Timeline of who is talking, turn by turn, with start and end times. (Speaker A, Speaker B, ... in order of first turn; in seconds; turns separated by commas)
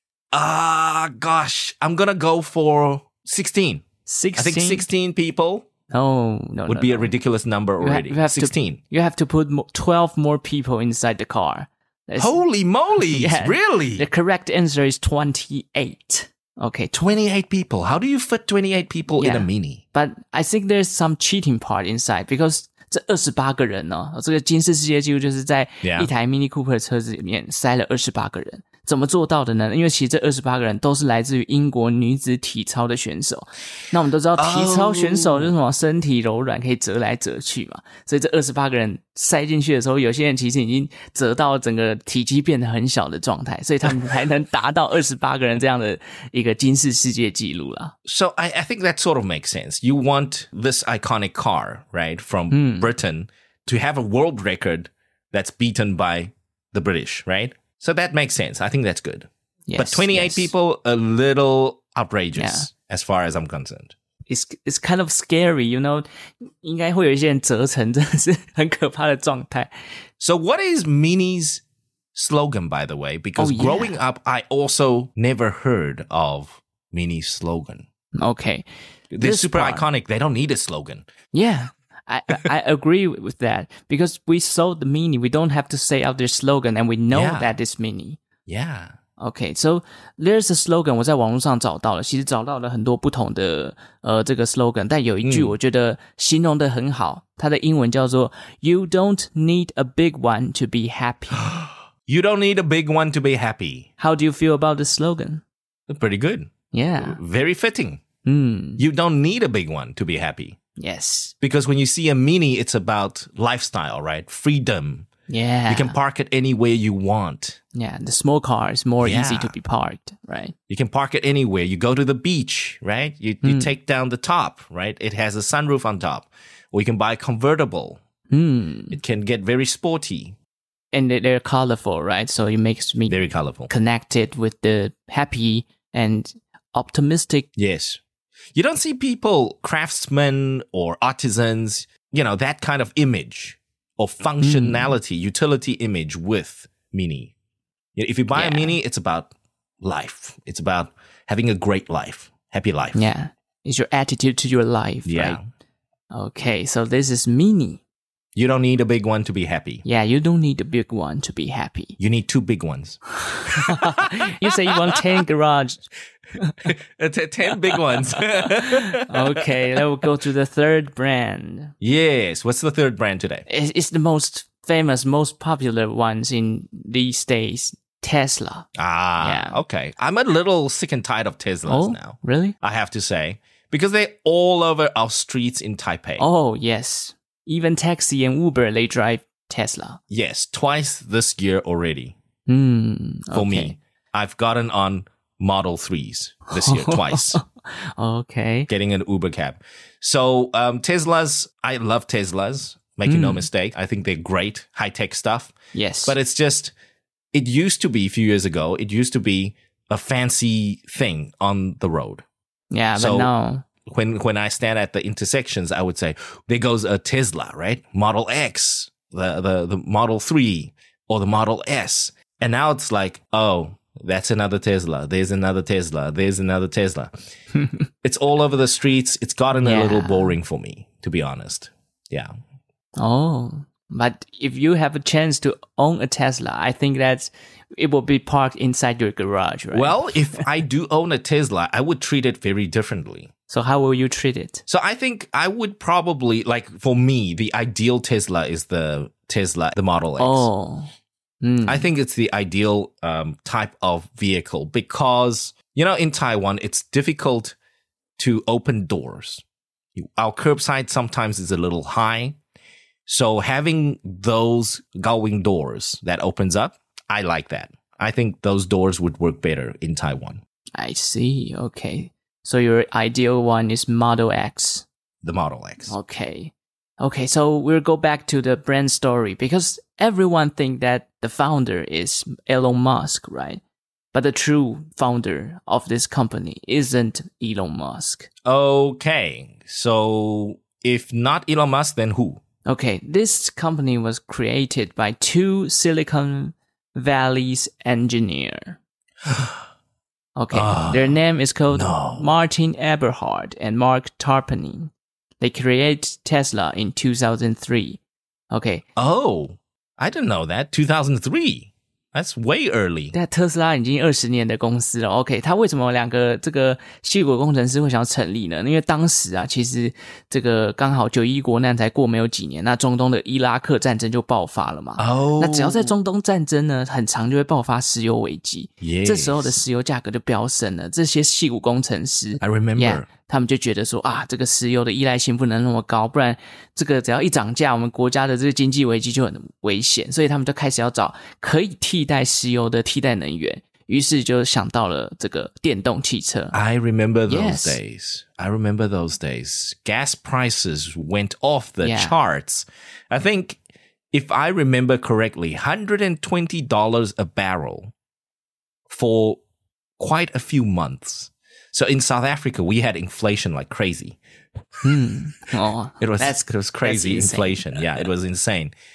Speaker A: 0.3-3.9, Speaker B: 4.1-4.9, Speaker A: 4.4-5.7, Speaker B: 5.9-7.1, Speaker A: 6.7-8.8, Speaker B: 7.8-12.4, Speaker A: 12.2-14.1, Speaker B: 13.0-16.9, Speaker A: 16.9-19.8, Speaker B: 19.2-48.0, Speaker A: 25.8-26.1, Speaker A: 34.4-35.5, Speaker A: 48.0-63.9, Speaker B: 52.5-52.9, Speaker B: 59.7-60.5, Speaker B: 62.4-62.7, Speaker B: 64.3-69.7, Speaker A: 70.2-71.6, Speaker A: 72.1-77.9, Speaker B: 73.4-74.0, Speaker B: 78.2-78.7, Speaker A: 79.1-81.1, Speaker B: 79.2-79.9, Speaker B: 81.3-88.2, Speaker A: 87.1-87.5, Speaker A: 88.5-89.0, Speaker B: 89.2-101.5, Speaker A: 95.2-95.6, Speaker A: 101.4-103.9, Speaker B: 104.0-105.4, Speaker A: 105.9-108.0, Speaker B: 106.7-107.2, Speaker B: 108.2-108.8, Speaker A: 108.8-110.6, Speaker B: 110.8-111.3, Speaker A: 111.4-115.1, Speaker B: 115.3-116.0, Speaker A: 115.7-117.6, Speaker B: 117.7-120.5, Speaker A: 119.0-119.5, Speaker A: 120.7-128.0, Speaker B: 123.4-123.7, Speaker B: 128.3-129.0, Speaker A: 128.9-130.4, Speaker B: 130.9-137.5, Speaker A: 133.1-133.7, Speaker A: 137.6-138.0, Speaker A: 138.5-147.3, Speaker B: 144.4-144.9, Speaker A: 148.0-153.0, Speaker B: 148.3-148.8, Speaker B: 152.9-155.4, Speaker A: 155.1-155.4, Speaker B: 156.1-157.8, Speaker A: 158.3-159.8, Speaker B: 159.8-162.0, Speaker A: 162.0-165.0, Speaker B: 163.2-165.9, Speaker A: 166.6-169.8, Speaker B: 167.7-171.7, Speaker A: 171.8-173.5, Speaker B: 173.5-178.7, Speaker A: 178.8-186.3, Speaker B: 179.2-179.6, Speaker B: 181.7-182.6, Speaker B: 186.2-190.0, Speaker A: 190.1-192.2, Speaker B: 192.5-193.8, Speaker A: 193.3-197.4, Speaker B: 196.5-198.7, Speaker A: 198.7-206.7, Speaker B: 203.1-203.5, Speaker B: 205.7-206.1, Speaker A: 207.3-212.2, Speaker B: 212.7-213.6, Speaker A: 213.0-213.3, Speaker A: 213.9-227.1, Speaker B: 227.6-227.8, Speaker A: 228.0-232.3, Speaker B: 229.6-230.4, Speaker B: 233.0-240.1, Speaker A: 239.7-243.3, Speaker B: 243.5-244.6, Speaker A: 244.7-250.5, Speaker B: 250.2-250.9, Speaker B: 251.4-251.9, Speaker A: 251.7-257.6, Speaker A: 258.2-259.4, Speaker A: 260.0-262.4, Speaker A: 263.1-270.4, Speaker B: 270.8-274.9, Speaker A: 275.2-275.9, Speaker B: 275.9-283.6, Speaker B: 284.1-288.3, Speaker A: 288.4-292.4, Speaker B: 292.6-298.8, Speaker A: 299.3-299.6, Speaker B: 300.4-308.0, Speaker A: 300.5-301.2, Speaker A: 301.7-302.3, Speaker B: 308.5-308.8, Speaker A: 309.0-313.1, Speaker B: 313.1-346.6, Speaker A: 325.0-325.9, Speaker A: 328.8-329.6, Speaker A: 332.4-333.1, Speaker A: 346.5-353.6, Speaker B: 347.3-347.8, Speaker B: 351.8-352.1, Speaker A: 354.1-357.9, Speaker A: 358.9-359.4, Speaker A: 360.0-364.2, Speaker B: 364.8-368.1, Speaker A: 366.0-368.7